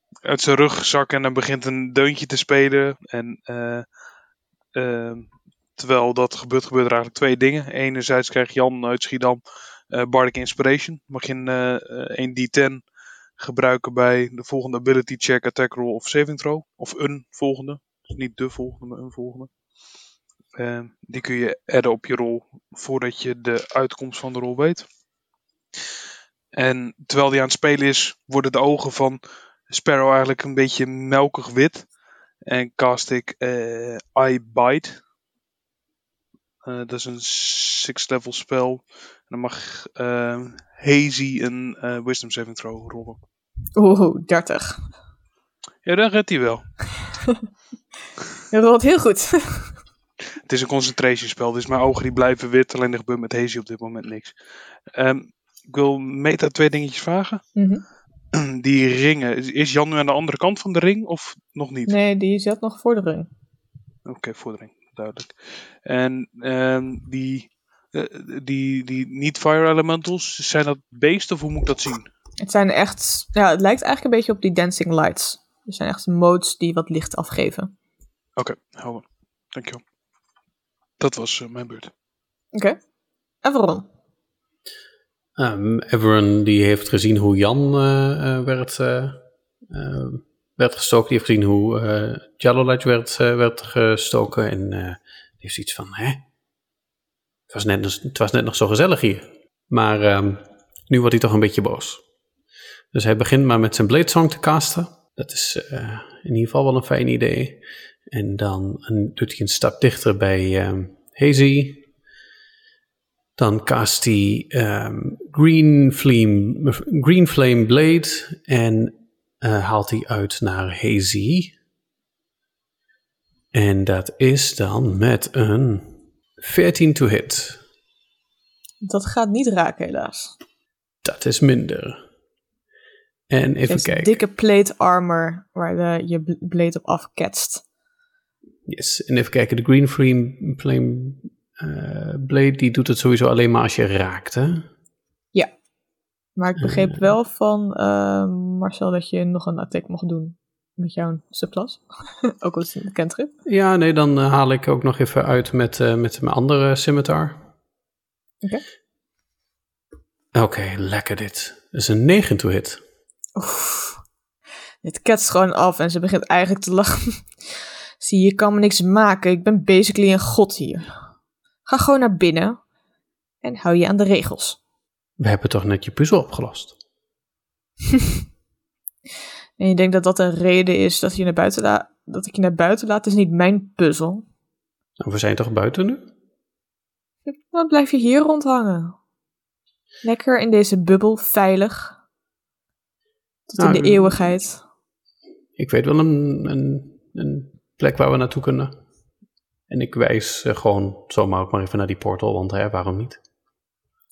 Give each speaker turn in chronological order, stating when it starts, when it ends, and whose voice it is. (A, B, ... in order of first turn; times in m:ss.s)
0:00.2-0:03.9 A
0:04.7-0:12.8 A
0:13.4-0:19.5 A
0:20.6-0:24.9 A
0:26.5-0:31.9 A
0:32.5-0:35.0 A
0:36.6-0:43.2 A
0:43.8-0:44.8 B
0:45.8-0:46.7 A
0:48.5-0:49.8 B
0:50.5-0:54.4 A
0:54.9-0:57.4 A
0:57.6-0:57.8 B
0:58.3-1:02.0 A
1:01.9-1:03.3 B
1:04.1-1:12.1 A
1:12.4-1:17.7 B
1:18.4-1:19.8 A
1:21.0-1:21.9 A
1:23.4-1:23.9 B
1:25.4-1:36.2 C
1:37.5-1:42.0 C
1:42.9-1:51.9 C
1:53.4-2:01.5 C
2:03.5-2:07.6 C
2:08.8-2:10.3 B
2:11.0-2:12.0 C
2:13.3-2:14.2 C
2:13.7-2:17.6 B
2:18.7-2:24.7 C
2:26.4-2:33.3 B
2:26.6-2:27.1 C
2:33.5-2:37.4 C
2:40.3-2:42.8 C
2:43.4-2:44.0 B
2:44.8-2:47.5 B
2:48.0-2:50.9 B
2:51.7-2:52.6 B
2:53.4-2:54.6 B
2:55.2-2:56.8 C
2:59.6-3:04.2 B
3:05.0-3:06.1 C
3:07.5-3:09.0 B
3:10.0-3:12.0 B
3:13.5-3:14.6 B
3:13.6-3:14.3 C
3:15.6-3:18.7 C
3:19.7-3:23.2 C